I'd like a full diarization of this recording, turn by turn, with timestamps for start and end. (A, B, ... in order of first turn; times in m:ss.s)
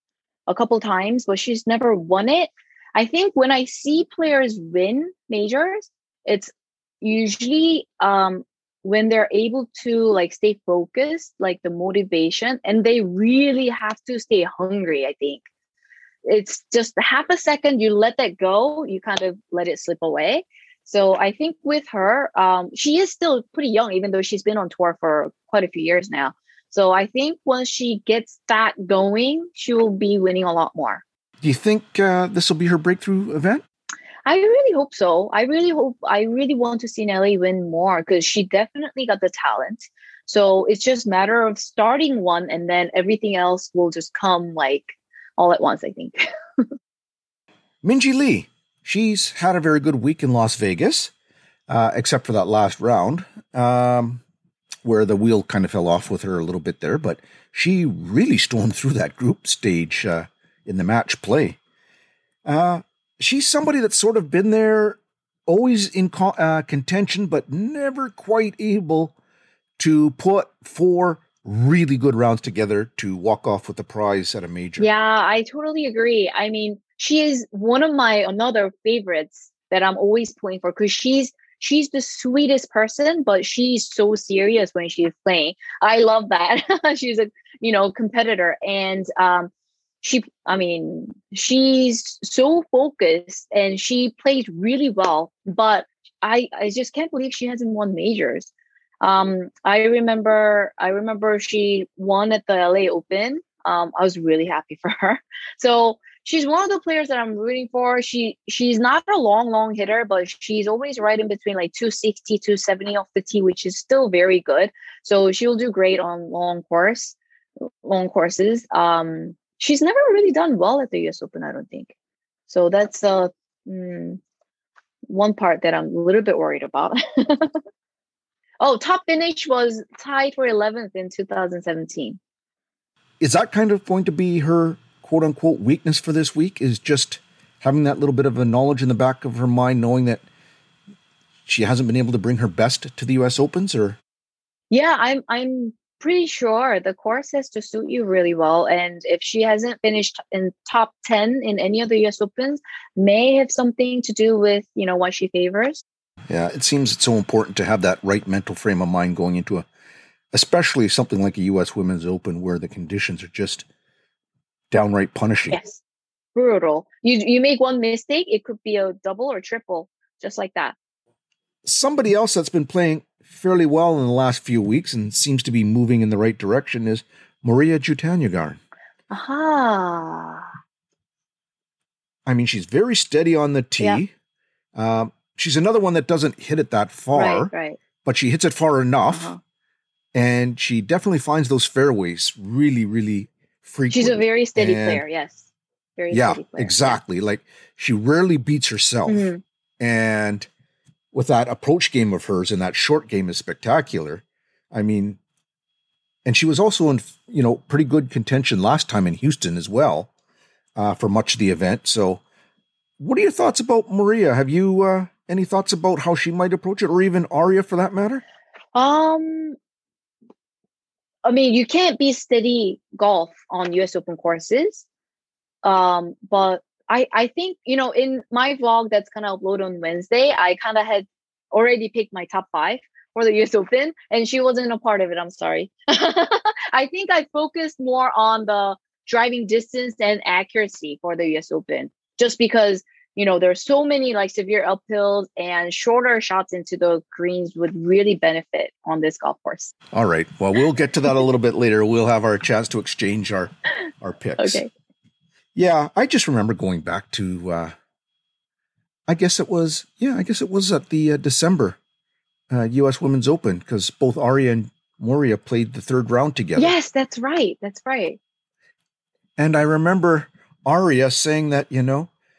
0:00.5-0:15.4 A
0:16.2-0:31.0 A
0:31.4-0:33.6 B
0:34.3-0:46.3 A
0:47.8-0:51.1 B
0:51.7-0:54.2 B
0:54.8-1:01.6 B
1:02.4-1:09.2 B
1:09.8-1:14.9 B
1:14.8-1:29.5 A
1:30.0-1:38.5 A
1:39.0-2:01.9 A
2:02.5-2:04.2 A
2:05.1-2:07.6 A
2:08.6-2:12.2 A
2:13.2-2:20.2 B
2:21.5-2:24.0 B
2:24.7-2:35.8 A
2:36.3-2:39.7 B
2:40.3-2:43.7 B
2:44.7-2:45.6 B
2:45.5-2:45.8 A
2:46.4-2:50.8 A
2:51.6-2:58.6 B
2:59.1-3:00.5 A
3:02.3-3:04.1 B
3:04.8-3:07.5 B
3:07.1-3:07.8 A
3:08.0-3:09.3 B
3:09.1-3:09.4 A
3:10.1-3:15.0 B
3:13.9-3:15.5 A
3:16.0-3:17.0 A
3:16.1-3:20.5 B
3:19.1-3:19.4 A
3:21.1-3:25.2 B
3:26.2-3:30.1 B
3:30.8-3:32.2 B
3:33.0-3:38.2 B
3:38.8-3:39.6 A
3:41.2-3:44.8 A
3:45.6-4:09.7 A
4:09.9-4:14.6 B
4:14.4-4:14.7 A
4:15.6-4:17.8 B
4:19.1-4:21.8 B
4:22.5-4:26.7 B
4:26.6-4:28.2 A
4:29.4-4:32.1 B